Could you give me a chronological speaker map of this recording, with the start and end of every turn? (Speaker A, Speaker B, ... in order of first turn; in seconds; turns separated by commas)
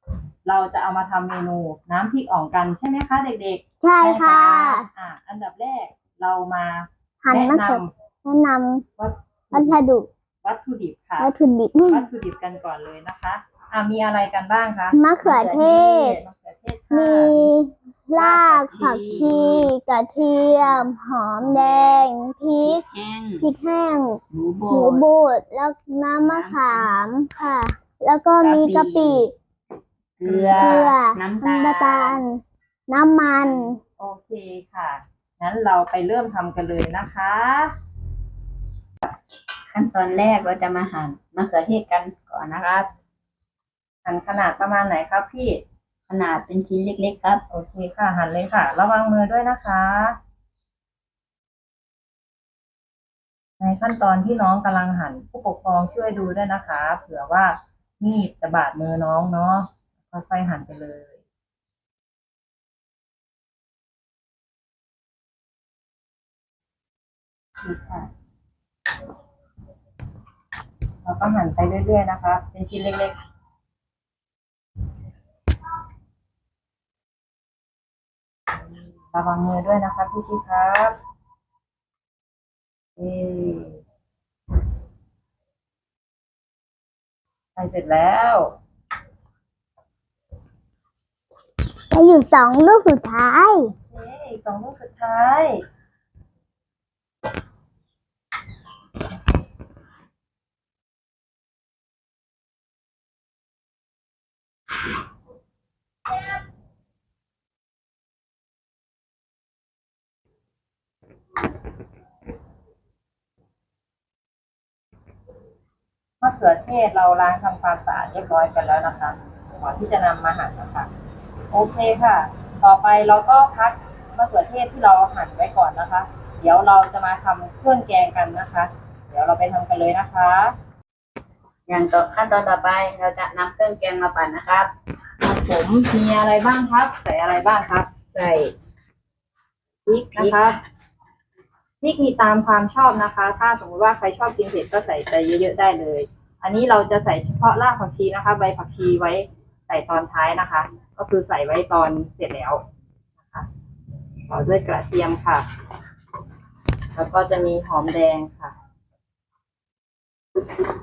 Speaker A: 0.4-7.9, Speaker B: 3.8-4.9, Speaker B: 7.2-8.8, Speaker A: 9.0-9.8, Speaker B: 9.5-10.1, Speaker A: 10.4-11.3, Speaker B: 11.2-12.0, Speaker A: 11.9-17.5, Speaker B: 14.9-16.2, Speaker C: 15.3-15.7, Speaker B: 16.9-22.8, Speaker C: 18.1-19.7, Speaker C: 20.6-20.9, Speaker C: 21.4-22.0, Speaker C: 22.6-23.5, Speaker B: 23.4-24.2, Speaker C: 24.3-25.1, Speaker B: 24.7-29.3, Speaker C: 26.2-26.9, Speaker C: 28.4-29.3, Speaker C: 30.2-32.2, Speaker A: 30.2-30.9, Speaker B: 30.6-33.8, Speaker A: 34.0-37.7, Speaker C: 39.7-42.9, Speaker A: 44.0-45.6, Speaker C: 46.1-47.4, Speaker A: 47.5-50.2, Speaker A: 53.6-61.1, Speaker A: 67.6-68.1, Speaker A: 71.0-73.2, Speaker A: 79.1-80.9, Speaker A: 83.0-83.8, Speaker A: 87.5-88.5, Speaker B: 91.9-93.7, Speaker A: 93.9-95.6, Speaker A: 116.2-120.9, Speaker A: 121.5-130.5, Speaker C: 131.7-134.7, Speaker A: 135.2-137.9, Speaker C: 138.1-138.5, Speaker C: 139.9-140.3, Speaker A: 140.1-140.6, Speaker A: 141.8-152.6, Speaker A: 154.3-155.4, Speaker A: 156.9-158.5